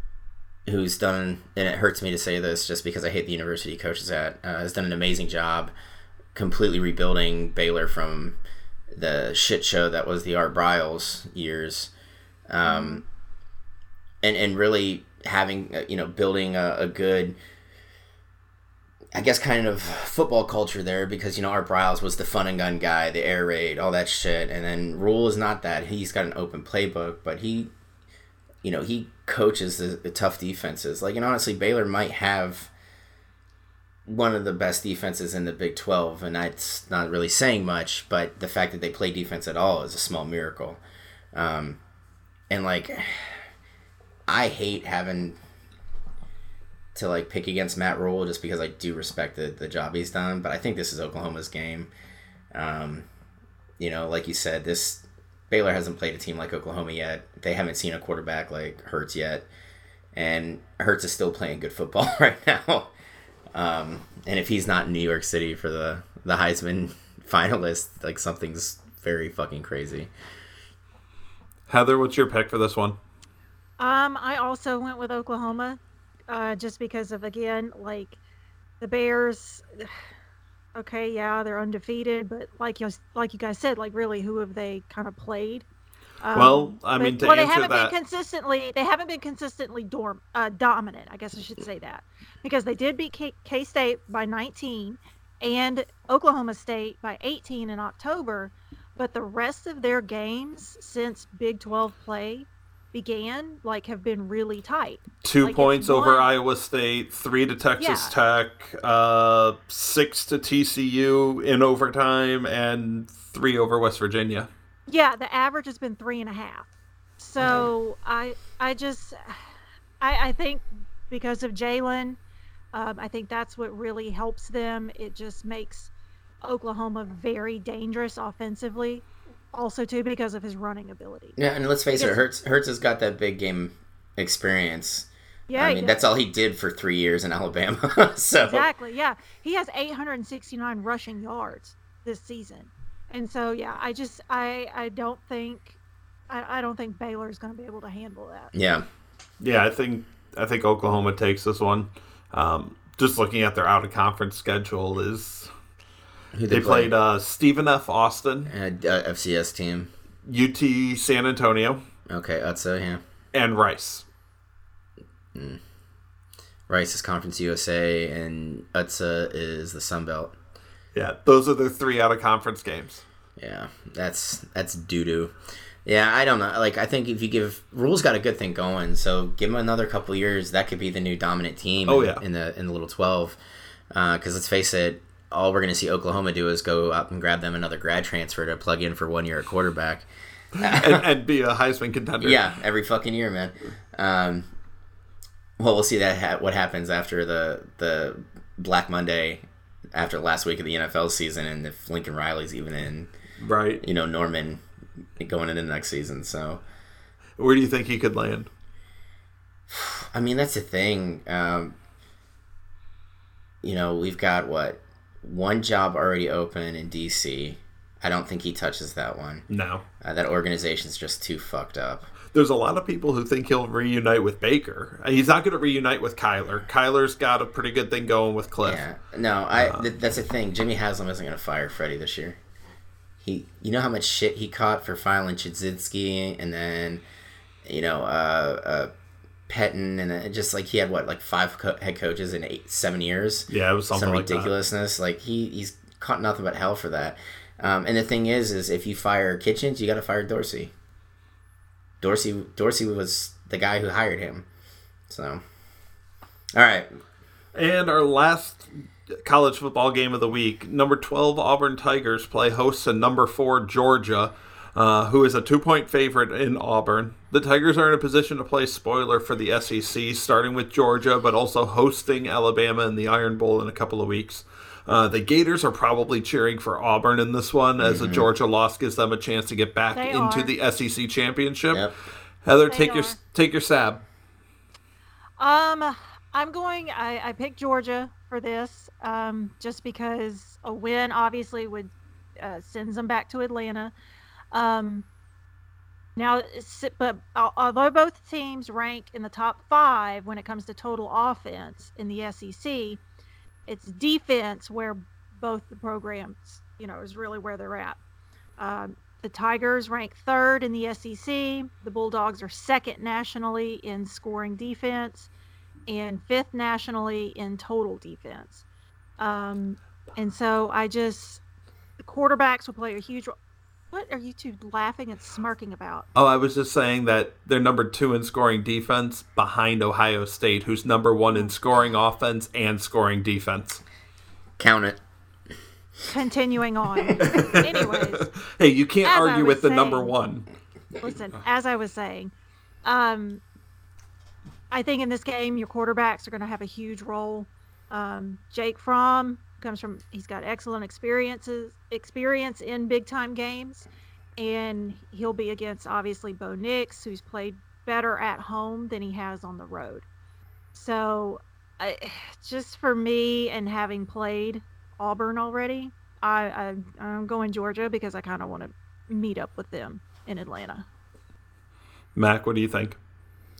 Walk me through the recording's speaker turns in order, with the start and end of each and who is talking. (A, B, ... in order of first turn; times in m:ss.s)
0:00.6-0:05.7 A
0:06.3-0:08.4 A
0:08.9-0:11.9 A
0:12.5-0:13.0 A
0:12.6-0:13.0 B
0:14.2-0:17.4 A
0:19.1-0:27.7 A
0:28.6-0:32.7 A
0:34.0-0:40.8 A
0:41.3-0:41.8 A
0:42.5-0:43.4 A
0:44.3-0:45.4 A
0:46.9-0:51.9 A
0:52.5-0:53.0 A
0:53.8-0:59.5 A
1:00.1-1:02.9 A
1:03.5-1:10.1 A
1:11.7-1:13.0 C
1:13.8-1:18.2 B
1:18.8-1:19.9 B
1:20.8-1:25.6 B
1:26.2-1:46.3 B
1:26.3-1:27.9 C
1:45.2-1:54.5 C
1:47.8-1:48.1 B
1:54.9-1:59.4 B
1:57.4-1:57.7 A
2:00.0-2:02.2 B
2:02.7-2:05.9 B
2:06.4-2:11.4 B
2:11.4-2:18.7 A
2:11.9-2:12.2 B
2:15.5-2:16.0 B
2:18.5-2:25.8 B
2:26.3-2:28.5 B
2:28.5-2:28.8 A
2:29.4-2:35.5 C
2:36.3-2:36.9 A
2:36.5-2:38.5 C
2:38.5-2:39.9 A
2:40.2-2:41.8 C
2:42.1-2:43.0 A
2:43.3-2:44.0 C
2:45.3-2:45.6 A
2:46.7-2:50.3 A
2:50.9-2:53.0 C
2:53.4-2:55.3 A
2:55.8-3:03.4 A
3:01.9-3:02.2 C
3:03.9-3:10.0 A
3:10.6-3:11.0 A
3:10.6-3:12.5 C
3:12.2-3:14.4 A
3:15.6-3:23.1 A
3:23.4-3:23.8 C
3:23.8-3:24.6 A
3:25.2-3:26.6 A
3:27.4-3:28.5 C
3:29.7-3:31.8 A
3:33.6-3:39.4 A
3:39.5-3:39.8 C
3:40.0-3:42.1 A
3:42.3-3:48.8 C
3:48.6-3:52.4 A
3:49.6-3:49.9 C
3:53.2-3:57.0 A
3:57.6-3:58.9 A
3:59.5-4:10.7 A
4:03.5-4:04.5 C
4:12.0-4:14.4 A
4:15.1-4:15.4 A
4:16.5-4:16.9 A
4:17.5-4:41.8 C
4:37.8-4:38.3 A
4:39.9-4:40.5 B
4:42.4-4:44.0 C
4:42.7-4:43.2 B
4:45.4-4:53.9 B
4:54.5-4:55.0 B
4:56.2-5:03.0 B
5:03.7-5:08.0 B
5:08.6-5:15.3 B
5:15.9-5:18.6 B
5:19.2-5:21.4 B
5:22.0-5:23.3 B
5:23.9-5:26.1 B
5:26.1-5:33.8 C
5:34.6-5:35.0 A
5:36.1-5:38.3 B
5:37.2-5:37.5 A
5:37.4-5:40.5 C
5:39.0-5:40.1 B
5:41.0-5:42.3 B
5:42.8-5:43.4 B
5:44.7-6:00.0 B
6:00.7-6:10.8 B
6:12.1-6:13.0 C